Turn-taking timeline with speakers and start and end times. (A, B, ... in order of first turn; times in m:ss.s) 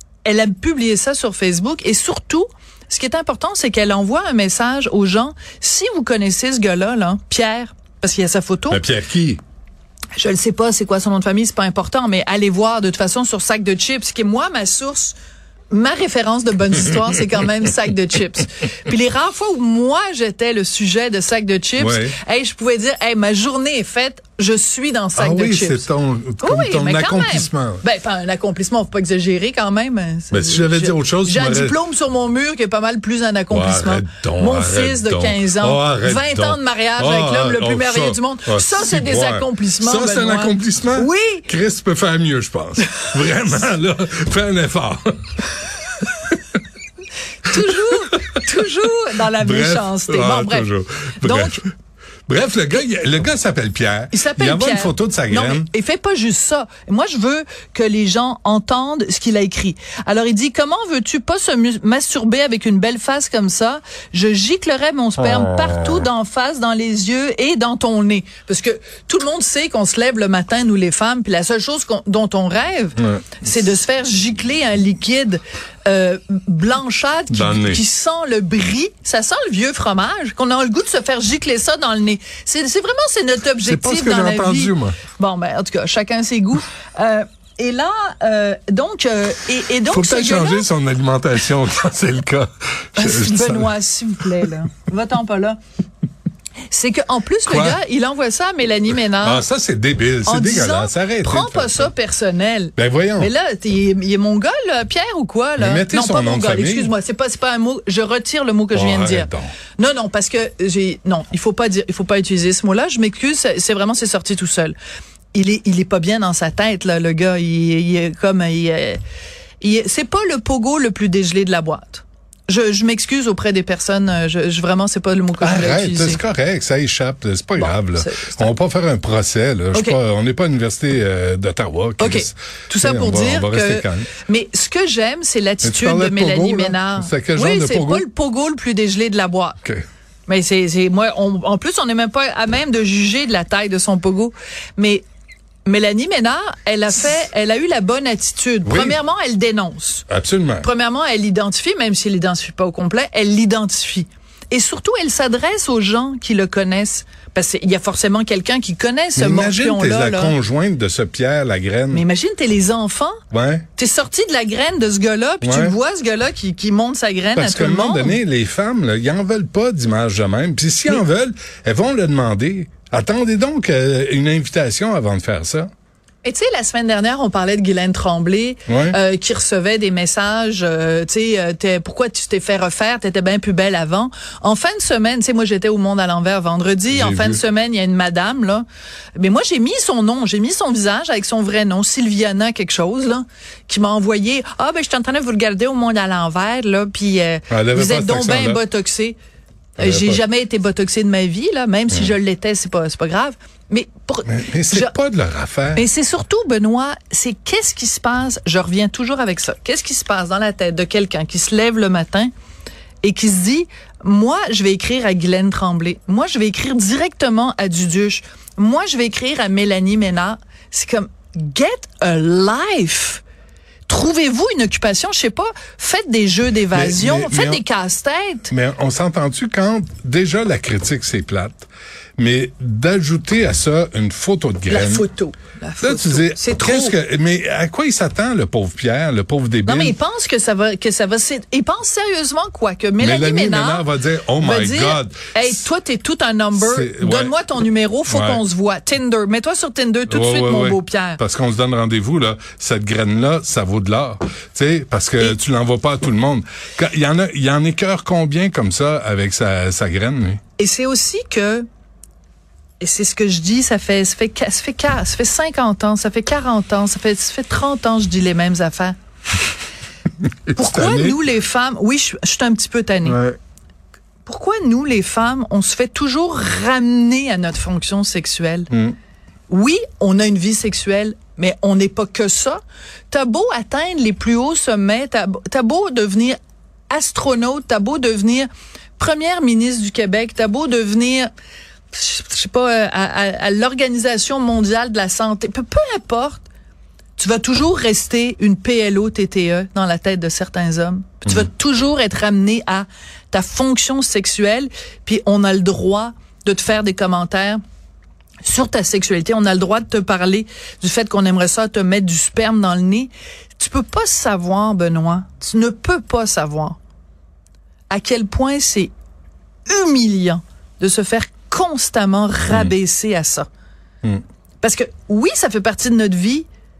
0:00.2-0:08.8 A
0:08.7-0:09.4 B
0:10.2-0:15.2 A
0:15.7-0:25.9 A
0:21.8-0:22.2 B
0:25.2-0:27.8 B
0:26.4-0:41.5 A
0:30.3-0:31.8 B
0:33.5-0:45.4 B
0:46.0-0:46.4 B
0:47.4-0:50.7 A
0:47.5-0:48.4 B
0:49.4-0:51.6 B
0:51.2-0:51.6 A
0:52.3-0:55.7 B
0:54.1-1:30.7 A
1:05.2-1:06.1 B
1:13.0-1:13.4 B
1:17.3-1:17.8 B
1:23.6-1:25.0 B
1:29.8-1:33.7 B
1:33.0-1:35.6 A
1:36.7-1:39.4 A
1:37.4-1:37.8 B
1:39.1-1:41.9 B
1:40.2-1:54.7 A
1:42.8-1:43.3 B
1:45.6-1:46.9 B
1:48.7-1:49.6 B
1:55.3-1:59.0 A
1:59.6-2:06.2 A
2:05.4-2:14.1 B
2:07.6-2:08.5 A
2:09.7-2:10.0 A
2:12.0-2:19.6 A
2:15.6-2:18.0 B
2:20.3-2:25.0 A
2:25.6-2:30.1 A
2:28.6-2:29.0 B
2:30.1-2:30.7 B
2:30.6-2:40.3 A
2:39.2-2:42.0 B
2:41.9-2:43.2 A
2:43.3-2:43.7 B
2:43.8-2:48.2 A
2:45.4-2:45.8 B
2:47.3-2:55.7 B
2:56.2-3:08.6 A
2:58.7-2:59.0 B
3:06.9-3:07.4 B
3:09.2-3:19.2 A
3:17.5-3:18.6 B
3:19.8-3:24.9 A
3:19.8-3:20.2 B
3:24.2-3:25.8 B
3:25.7-3:32.3 A
3:33.0-3:43.2 A
3:43.9-3:48.5 A
3:46.7-3:47.6 B
3:48.5-3:55.0 B
3:54.7-3:57.0 A
3:55.8-4:00.0 B
3:59.6-4:03.9 A
4:03.0-4:05.6 B
4:04.4-4:11.2 A
4:06.5-4:07.3 B
4:08.1-4:08.4 B
4:10.1-4:20.4 B
4:20.6-4:21.6 A
4:22.8-4:29.0 A
4:30.4-4:31.2 B
4:30.5-4:33.2 A
4:33.0-4:33.4 B
4:34.2-4:38.7 A
4:39.5-4:46.4 A
4:46.9-4:51.3 A
4:51.9-4:56.4 A
4:57.2-5:07.6 A
5:08.4-5:16.8 A
5:17.9-5:18.9 A
5:19.7-5:23.5 A
5:24.6-5:26.5 A